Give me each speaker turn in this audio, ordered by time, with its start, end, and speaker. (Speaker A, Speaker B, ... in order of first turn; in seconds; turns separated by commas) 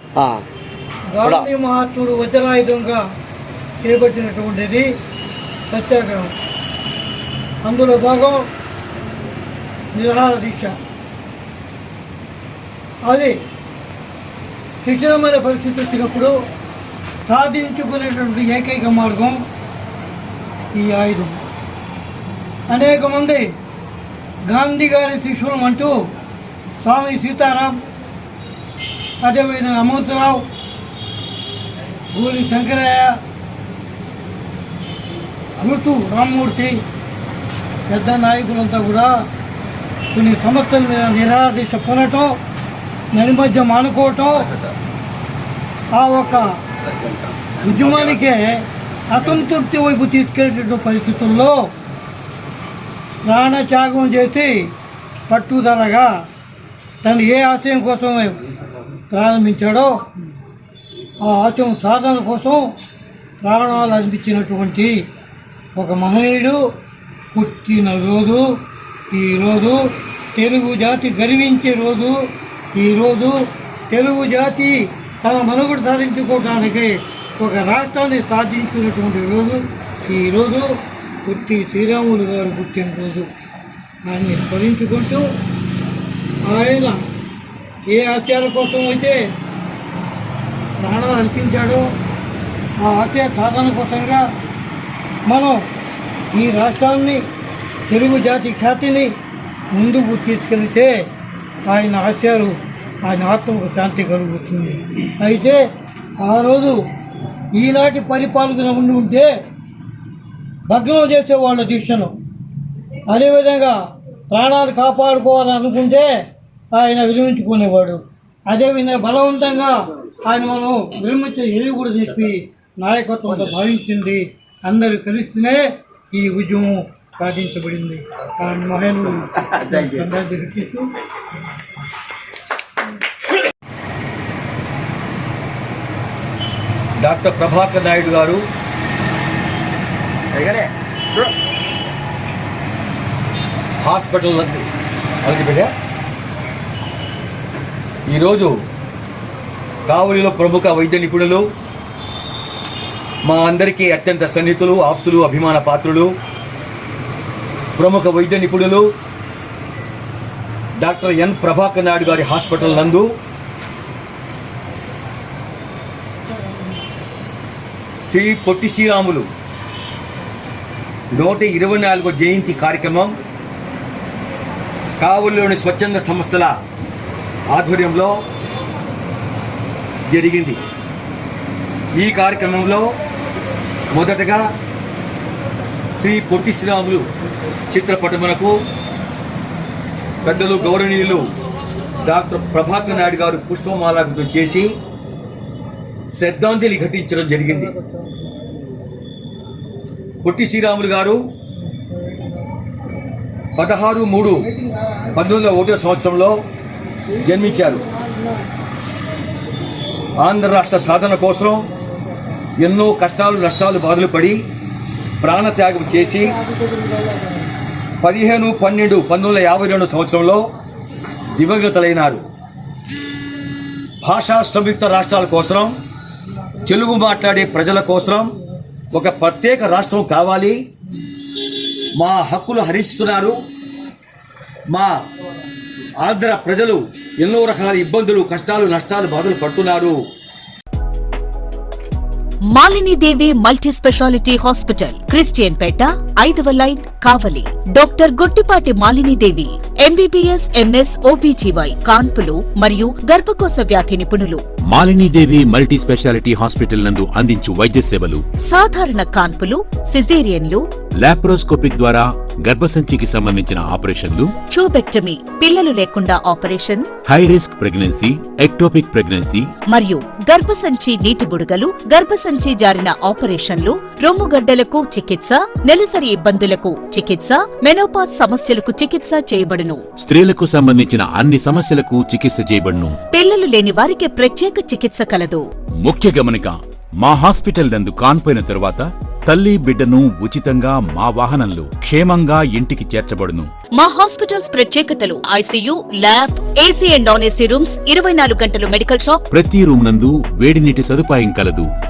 Speaker A: 0.2-0.4, Speaker B: 1.1-3.0, Speaker B: 3.8-4.9, Speaker B: 5.7-6.3, Speaker B: 7.6-8.5, Speaker B: 9.9-10.8, Speaker B: 13.0-13.4, Speaker B: 14.8-16.3, Speaker B: 17.3-19.4, Speaker B: 20.7-21.4, Speaker B: 22.7-23.5, Speaker B: 24.5-25.9, Speaker B: 26.8-27.8, Speaker B: 29.2-30.5, Speaker B: 32.1-33.2, Speaker B: 35.6-36.8, Speaker B: 37.9-39.2, Speaker B: 40.1-42.4, Speaker B: 43.1-44.5, Speaker A: 44.4-44.8, Speaker B: 45.9-46.6, Speaker A: 46.8-48.2, Speaker B: 47.6-51.7, Speaker B: 53.2-54.7, Speaker B: 55.3-56.1, Speaker B: 57.0-58.4, Speaker B: 59.1-60.0, Speaker B: 61.2-62.6, Speaker B: 63.4-65.0, Speaker B: 65.8-66.6, Speaker B: 67.3-80.7, Speaker B: 81.2-83.3, Speaker B: 84.1-85.2, Speaker B: 86.5-87.0, Speaker B: 87.9-89.2, Speaker B: 90.8-91.8, Speaker B: 92.8-94.2, Speaker B: 95.3-95.6, Speaker B: 96.3-97.2, Speaker B: 97.9-99.1, Speaker B: 99.7-101.0, Speaker B: 101.7-105.6, Speaker B: 106.2-106.8, Speaker B: 107.5-109.3, Speaker B: 110.7-112.2, Speaker B: 113.1-113.8, Speaker B: 114.3-116.1, Speaker B: 116.7-130.9, Speaker A: 137.0-138.4, Speaker A: 140.3-141.3, Speaker A: 143.8-144.7, Speaker A: 145.2-145.7, Speaker A: 148.1-148.5, Speaker A: 149.9-151.4, Speaker A: 153.2-156.1, Speaker A: 157.8-158.9, Speaker A: 160.8-163.1, Speaker A: 168.1-169.3, Speaker A: 171.1-173.2, Speaker A: 175.0-176.5, Speaker A: 177.5-178.1, Speaker A: 180.1-180.6, Speaker A: 181.9-182.9, Speaker A: 183.9-184.4, Speaker A: 186.0-187.1, Speaker A: 187.7-188.5, Speaker A: 190.2-191.2, Speaker A: 192.0-194.7, Speaker A: 196.1-197.7, Speaker B: 197.5-198.3, Speaker A: 200.2-201.2, Speaker B: 201.7-202.4, Speaker A: 203.6-204.4, Speaker B: 204.4-205.2, Speaker A: 205.1-206.3, Speaker A: 207.2-207.8, Speaker B: 208.0-208.3, Speaker A: 210.2-211.7, Speaker A: 212.6-214.4, Speaker A: 215.2-216.4, Speaker A: 218.0-220.4, Speaker A: 221.3-222.2, Speaker A: 224.0-225.7, Speaker A: 226.6-228.3, Speaker A: 228.9-230.6, Speaker A: 231.9-233.4, Speaker A: 234.7-235.0, Speaker A: 236.0-240.0, Speaker C: 242.5-254.4, Speaker D: 254.7-258.2, Speaker C: 258.4-260.6, Speaker D: 261.0-264.3, Speaker C: 264.5-266.9, Speaker D: 267.1-269.5, Speaker C: 269.7-279.9, Speaker D: 280.0-283.0, Speaker C: 283.1-285.5, Speaker D: 285.8-293.5, Speaker C: 293.8-299.2, Speaker D: 299.3-301.7